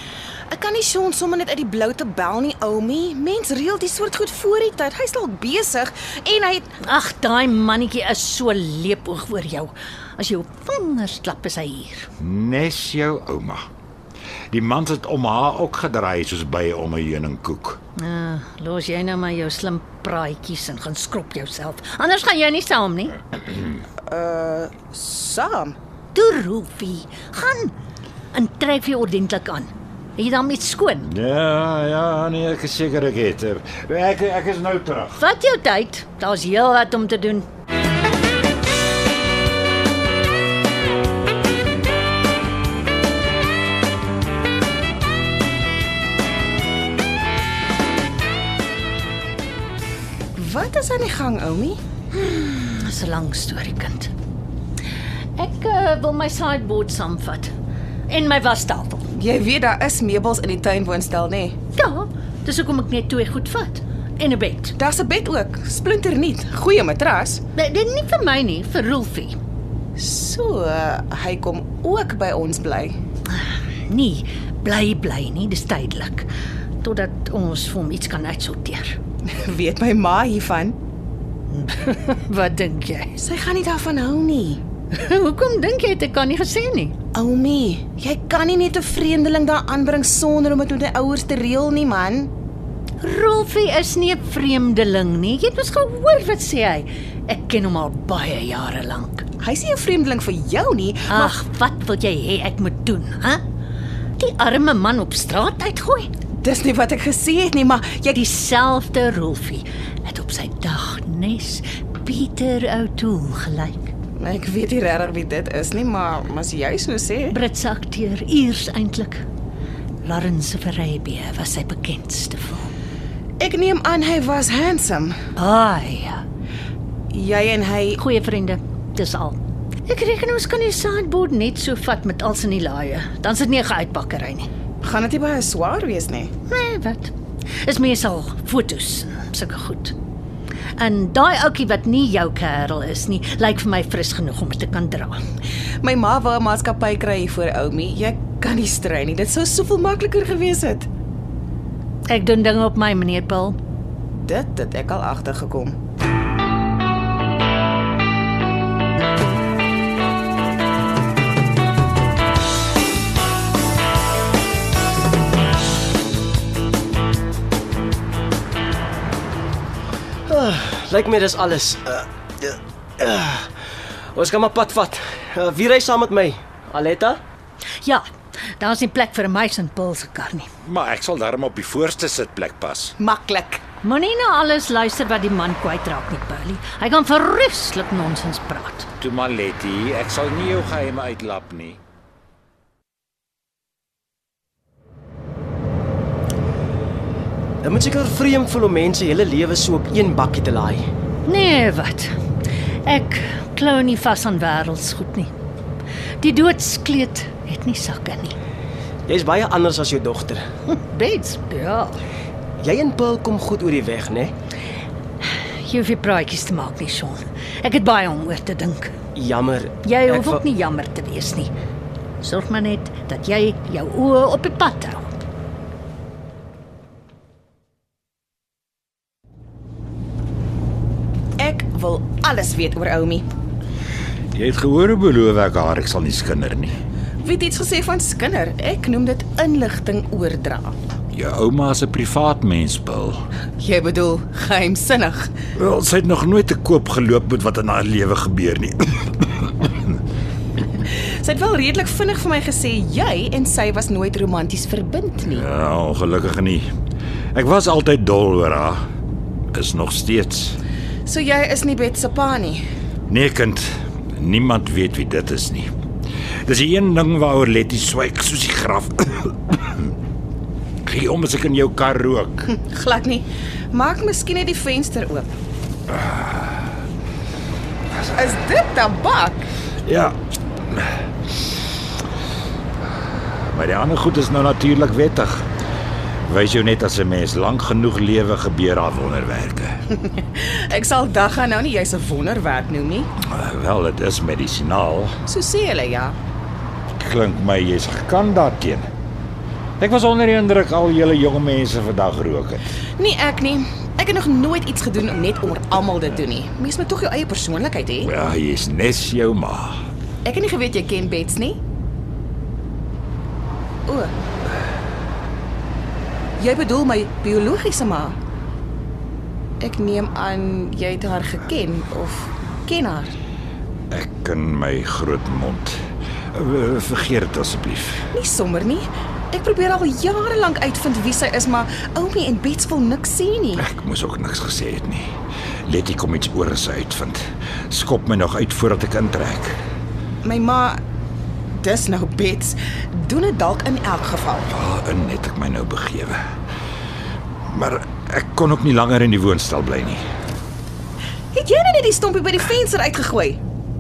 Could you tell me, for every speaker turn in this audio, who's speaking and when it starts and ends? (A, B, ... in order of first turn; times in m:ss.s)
0:00.5-0:06.7 A
0:06.8-0:12.1 B
0:12.2-0:13.6 C
0:14.5-0:17.8 C
0:18.0-0:23.2 B
0:24.1-0:25.8 A
0:26.1-0:27.7 B
0:28.3-0:31.1 B
0:31.0-0:35.2 C
0:35.2-0:37.5 B
0:50.4-0:51.8 A
0:52.1-0:54.1 B
0:55.4-0:57.5 B
0:58.1-0:59.0 B
0:59.1-1:01.6 A
1:01.8-1:04.8 B
1:04.8-1:07.4 A
1:07.6-1:09.4 B
1:10.0-1:13.0 A
1:13.3-1:16.3 B
1:16.8-1:19.0 B
1:19.3-1:20.8 A
1:21.5-1:23.1 B
1:23.2-1:24.6 A
1:24.9-1:27.0 B
1:27.1-1:32.3 A
1:33.0-1:39.2 B
1:39.4-1:41.4 A
1:41.1-1:43.4 B
1:44.2-1:46.1 B
1:46.4-1:48.2 A
1:48.2-1:53.9 B
1:54.2-1:57.4 A
1:57.3-1:59.2 B
2:00.0-2:02.7 B
2:03.4-2:05.2 A
2:05.4-2:06.2 B
2:07.1-2:08.0 A
2:08.0-2:14.5 B
2:14.8-2:16.3 A
2:16.5-2:17.1 B
2:17.6-2:20.0 B
2:20.8-2:25.2 B
2:25.8-2:30.9 A
2:32.1-2:33.6 B
2:34.2-2:35.7 A
2:50.3-2:53.5 D
2:54.2-2:57.2 D
2:58.6-3:00.5 B
3:00.6-3:03.0 C
3:03.0-3:03.6 A
3:03.8-3:08.9 B
3:09.0-3:11.8 C
3:17.6-3:20.8 D
3:21.3-3:22.2 B
3:22.9-3:25.3 B
3:26.2-3:28.4 B
3:29.1-3:30.4 D
3:30.7-3:32.0 B
3:32.6-3:34.3 D
3:35.6-3:39.0 B
3:39.2-3:40.4 D
3:39.8-3:41.5 B
3:42.2-3:45.1 B
3:51.4-3:53.2 A
3:54.3-3:56.8 C
3:57.2-4:00.7 A
4:01.1-4:03.3 C
4:03.6-4:05.3 A
4:05.6-4:09.9 C
4:10.9-4:15.4 A
4:15.3-4:16.7 C
4:17.4-4:18.8 C
4:19.5-4:20.6 C
4:21.1-4:22.6 A
4:23.1-4:25.7 C
4:26.5-4:29.9 C
4:30.9-4:32.5 C
4:32.6-4:35.3 A
4:35.9-4:36.5 C
4:38.2-4:39.4 A
4:39.8-4:40.2 C
4:43.5-4:45.5 C
4:46.3-4:49.8 C
4:50.3-4:53.1 A
4:53.2-4:55.2 C
4:55.3-4:56.2 A
4:57.0-4:58.8 C
4:59.8-5:02.6 C
5:03.0-5:08.1 A
5:08.0-5:09.8 C
5:10.2-5:11.6 A
5:13.9-5:14.1 A
5:16.4-5:18.2 A
5:19.6-5:23.2 A
5:23.9-5:25.8 C
5:26.3-5:28.1 C
5:28.1-5:33.6 A
5:33.6-5:35.2 C
5:35.7-5:39.6 C
5:40.2-5:40.8 A
5:41.6-5:44.5 A
5:44.5-5:46.2 C
5:47.5-5:50.0 C
5:51.3-5:53.4 A